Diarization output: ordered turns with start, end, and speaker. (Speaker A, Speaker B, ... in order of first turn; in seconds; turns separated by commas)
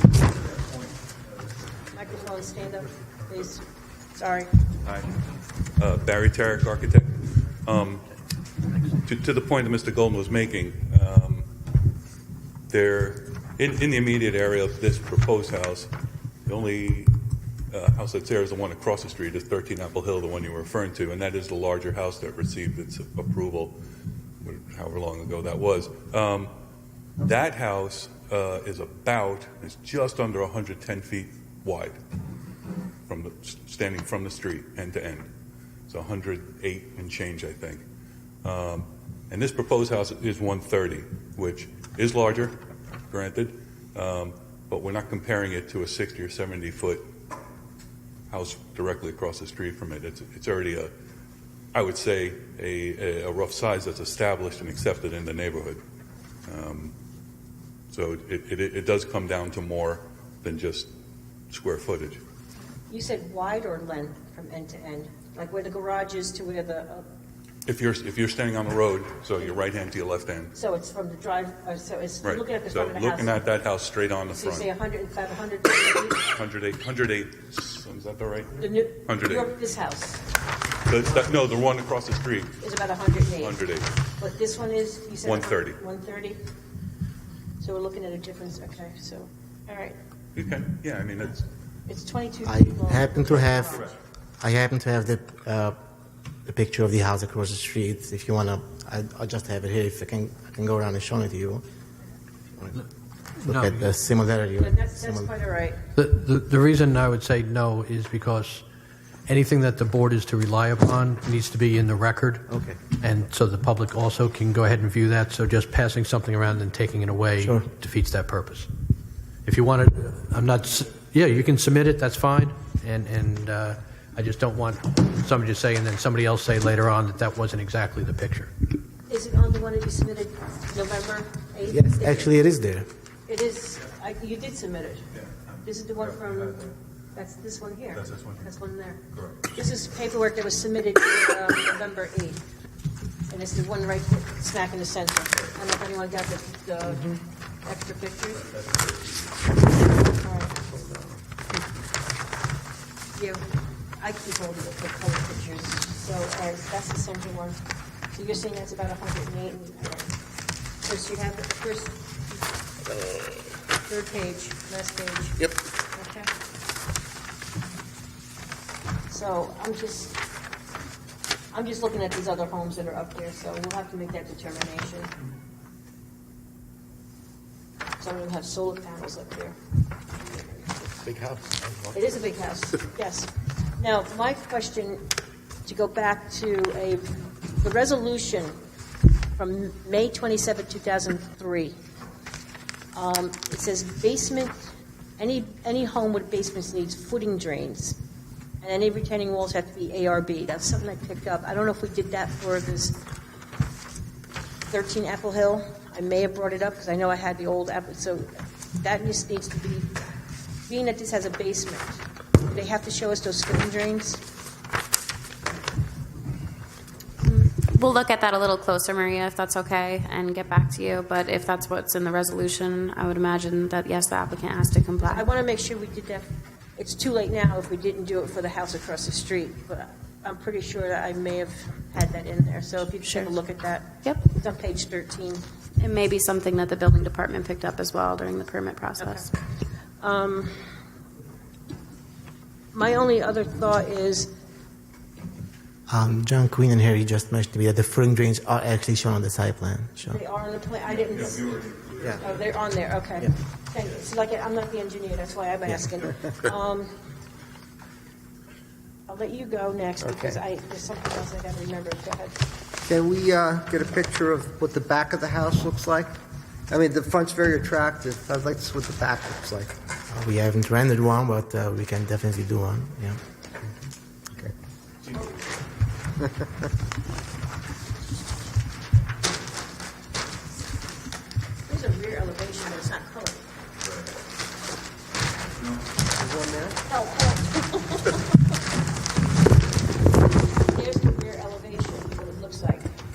Speaker A: 0.2-1.5, Speaker B: 1.9-4.6, Speaker A: 4.8-5.1, Speaker A: 5.8-8.1, Speaker A: 8.9-11.5, Speaker A: 12.7-15.9, Speaker A: 16.5-17.1, Speaker A: 17.7-23.8, Speaker A: 24.4-26.5, Speaker A: 27.2-32.0, Speaker A: 33.1-35.3, Speaker A: 35.9-37.8, Speaker A: 38.4-42.6, Speaker A: 43.1-47.0, Speaker A: 48.3-50.9, Speaker A: 51.7-55.8, Speaker A: 56.5-56.9, Speaker A: 57.9-60.9, Speaker A: 61.5-62.2, Speaker B: 62.9-67.1, Speaker A: 67.7-70.5, Speaker B: 70.5-73.3, Speaker A: 72.2-74.7, Speaker B: 74.3-76.2, Speaker A: 76.3-79.5, Speaker B: 78.6-80.2, Speaker A: 80.9-82.6, Speaker B: 82.6-83.6, Speaker A: 83.4-83.9, Speaker B: 84.2-86.4, Speaker A: 85.2-85.8, Speaker B: 87.6-90.0, Speaker A: 90.3-91.5, Speaker B: 91.9-93.9, Speaker C: 92.5-93.9, Speaker C: 94.4-95.8, Speaker C: 96.5-101.6, Speaker D: 103.4-103.9, Speaker C: 103.5-105.3, Speaker B: 104.6-105.9, Speaker D: 106.0-108.6, Speaker D: 109.3-118.7, Speaker C: 112.5-112.8, Speaker C: 117.4-117.7, Speaker D: 119.5-128.5, Speaker B: 129.1-132.3, Speaker C: 131.7-132.9, Speaker B: 133.3-135.1, Speaker B: 135.6-139.0, Speaker A: 136.3-136.6, Speaker A: 137.9-138.5, Speaker A: 139.1-139.5, Speaker B: 139.5-142.4, Speaker B: 143.3-147.1, Speaker B: 147.6-148.4, Speaker A: 148.4-149.3, Speaker B: 150.2-150.6, Speaker E: 150.7-151.1, Speaker B: 153.2-153.4, Speaker B: 154.0-157.6, Speaker B: 158.1-160.1, Speaker B: 160.8-162.2, Speaker B: 163.9-165.4, Speaker B: 165.9-166.3, Speaker B: 169.1-170.2, Speaker B: 171.5-175.1, Speaker B: 178.0-179.6, Speaker B: 180.2-180.6, Speaker E: 180.8-182.0, Speaker B: 181.9-185.1, Speaker B: 185.7-188.6, Speaker B: 189.4-191.7, Speaker B: 192.9-198.0, Speaker B: 198.6-203.0, Speaker B: 204.7-208.3, Speaker B: 208.8-209.9, Speaker B: 210.7-214.2, Speaker F: 217.2-225.2, Speaker B: 225.0-235.4, Speaker F: 233.0-233.3, Speaker F: 235.8-239.3, Speaker B: 239.0-239.3, Speaker B: 240.0-240.6, Speaker B: 242.7-244.3, Speaker C: 245.9-250.2, Speaker B: 250.1-256.9, Speaker A: 251.1-252.4, Speaker B: 259.1-262.4, Speaker E: 260.0-260.4, Speaker E: 262.9-266.1, Speaker E: 266.7-269.7, Speaker C: 270.1-273.2, Speaker A: 275.0-275.3, Speaker B: 281.7-283.4, Speaker A: 283.8-284.1, Speaker A: 285.6-285.8, Speaker E: 286.1-286.8, Speaker B: 286.9-288.4, Speaker B: 290.7-292.9